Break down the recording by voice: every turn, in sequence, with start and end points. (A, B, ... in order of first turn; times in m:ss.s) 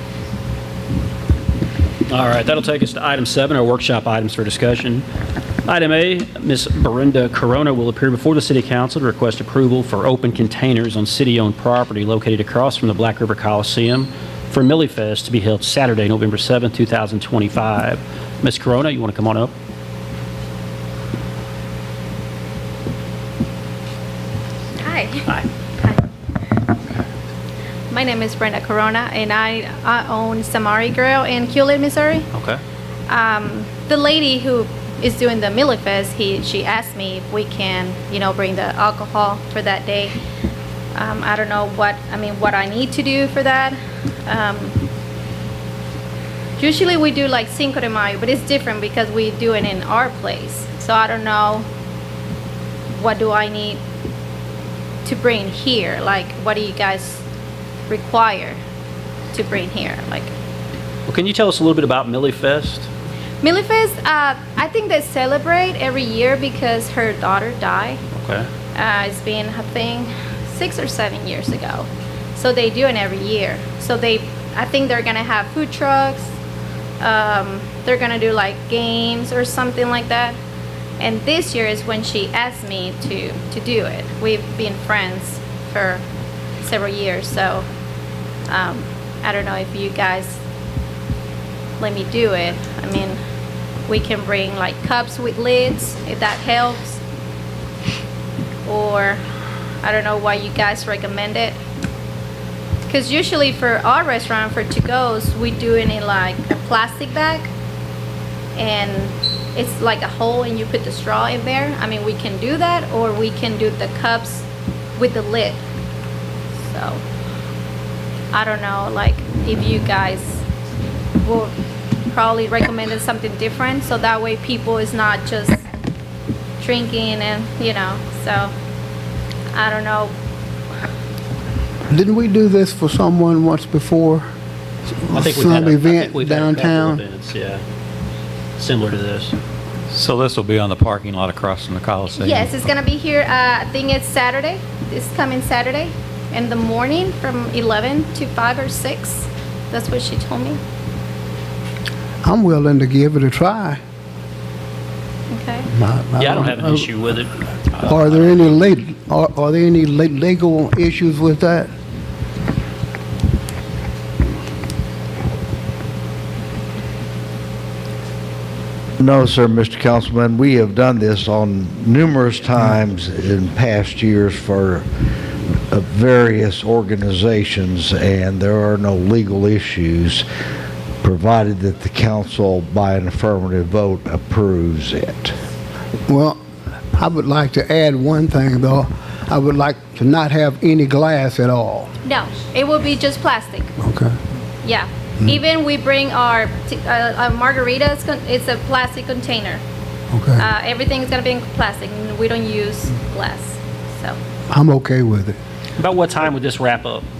0:02.1-0:05.0 A
0:05.6-0:19.5 A
0:24.8-0:25.3 B
0:27.9-0:32.3 B
0:32.3-0:32.6 A
0:33.1-0:40.1 B
0:40.9-0:44.8 B
0:46.6-0:51.6 B
0:52.9-0:53.8 B
0:55.0-0:57.2 B
0:57.9-0:58.6 B
0:59.3-1:00.3 B
1:01.1-1:02.9 A
1:03.4-1:08.0 B
1:08.1-1:08.5 A
1:08.7-1:16.3 B
1:17.0-1:20.4 B
1:21.0-1:26.0 B
1:26.6-1:27.6 B
1:28.5-1:30.4 B
1:31.8-1:33.2 B
1:33.9-1:37.0 B
1:38.6-1:39.2 B
1:39.8-1:41.6 B
1:42.9-1:47.5 B
1:48.6-1:54.4 B
1:55.0-1:55.6 B
1:56.6-1:57.0 B
1:58.3-2:00.4 B
2:01.2-2:01.5 B
2:02.1-2:05.6 B
2:06.6-2:08.5 B
2:09.5-2:10.1 B
2:11.9-2:14.3 C
2:15.0-2:17.0 C
2:15.1-2:17.6 A
2:18.6-2:19.3 A
2:19.9-2:22.6 D
2:22.1-2:30.6 B
2:32.2-2:33.8 C
2:35.3-2:35.7 B
2:35.7-2:36.9 C
2:36.2-2:38.6 A
2:37.8-2:41.7 C
2:49.0-2:54.9 E
2:55.7-3:00.2 E
3:01.0-3:05.4 E
3:06.1-3:06.4 C
3:06.9-3:11.9 C
3:12.0-3:13.7 B
3:13.8-3:14.1 C
3:14.6-3:19.6 B
3:20.1-3:20.5 C
3:20.4-3:24.2 B
3:24.5-3:25.4 C
3:25.8-3:27.0 A